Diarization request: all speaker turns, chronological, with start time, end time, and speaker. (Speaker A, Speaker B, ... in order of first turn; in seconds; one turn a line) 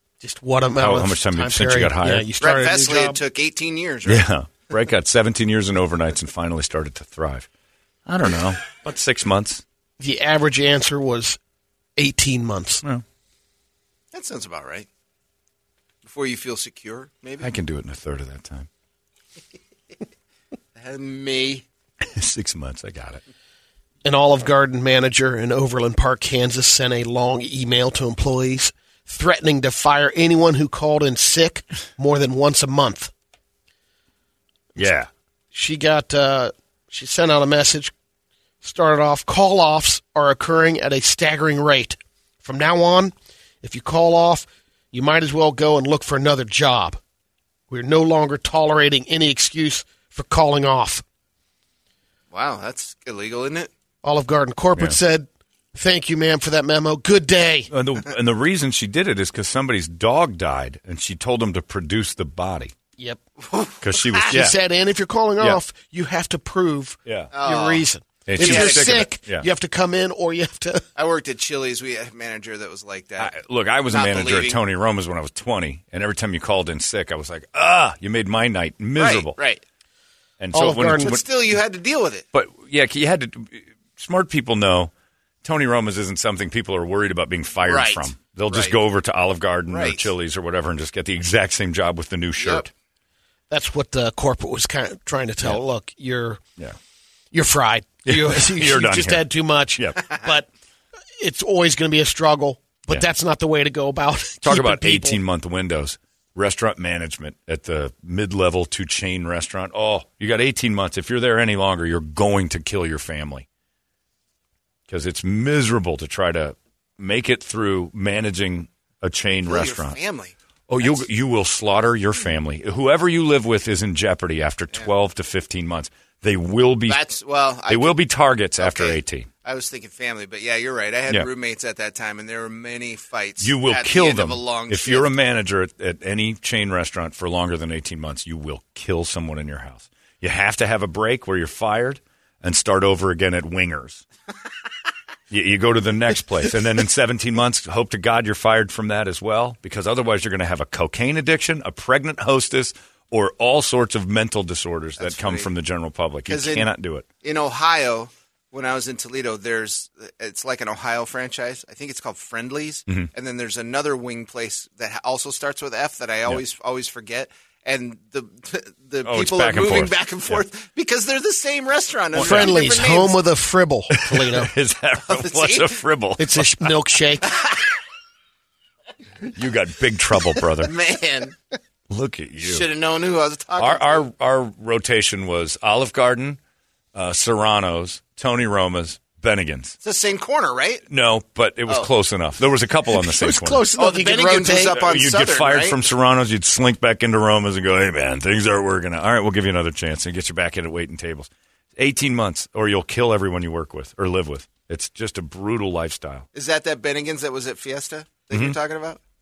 Speaker A: 0.2-3.2
Speaker B: 0.8-2.3
Speaker C: 2.4-4.3
Speaker B: 4.1-7.5
Speaker B: 8.1-9.6
Speaker A: 10.0-11.4
Speaker A: 12.0-12.8
Speaker C: 14.1-14.9
Speaker C: 16.0-17.5
Speaker B: 17.4-18.7
Speaker C: 20.8-21.6
Speaker B: 22.0-23.2
Speaker A: 24.0-33.1
Speaker B: 34.8-35.1
Speaker A: 35.5-37.9
Speaker A: 38.6-47.0
Speaker A: 47.7-51.0
Speaker C: 52.3-53.7
Speaker A: 54.0-57.7
Speaker B: 57.7-62.7
Speaker C: 63.4-64.3
Speaker B: 63.8-64.5
Speaker A: 64.3-70.8
Speaker B: 67.1-67.3
Speaker C: 67.3-69.1
Speaker B: 68.3-69.5
Speaker C: 71.0-73.3
Speaker B: 73.2-79.3
Speaker C: 73.9-74.6
Speaker C: 79.0-79.6
Speaker B: 80.4-81.2
Speaker A: 80.5-81.2
Speaker C: 81.0-82.2
Speaker B: 82.3-84.9
Speaker B: 85.4-92.7
Speaker C: 87.7-88.8
Speaker C: 89.7-90.1
Speaker C: 92.4-92.7
Speaker A: 93.5-96.4
Speaker A: 97.3-100.5
Speaker B: 98.1-99.3
Speaker B: 99.8-100.0
Speaker A: 101.2-105.2
Speaker B: 104.4-113.5
Speaker B: 114.9-120.0
Speaker C: 119.5-121.0
Speaker B: 120.7-127.0
Speaker C: 126.9-128.0
Speaker B: 127.7-129.3
Speaker C: 128.6-135.1
Speaker B: 133.4-144.0
Speaker B: 145.3-157.1
Speaker C: 155.0-155.5
Speaker C: 156.3-156.7
Speaker C: 157.2-173.2
Speaker B: 169.0-170.4
Speaker B: 172.1-172.6
Speaker A: 172.2-174.5
Speaker B: 174.0-176.7
Speaker C: 175.1-175.8
Speaker A: 176.2-177.3
Speaker C: 177.3-177.6
Speaker B: 179.3-180.7
Speaker C: 180.6-181.4
Speaker B: 181.9-182.7
Speaker C: 182.4-184.0
Speaker B: 183.6-186.4
Speaker B: 186.9-189.8
Speaker C: 189.8-190.8
Speaker B: 190.9-193.7
Speaker A: 192.9-194.8
Speaker C: 193.7-195.8
Speaker B: 194.7-206.3
Speaker C: 206.3-209.0
Speaker B: 208.3-208.6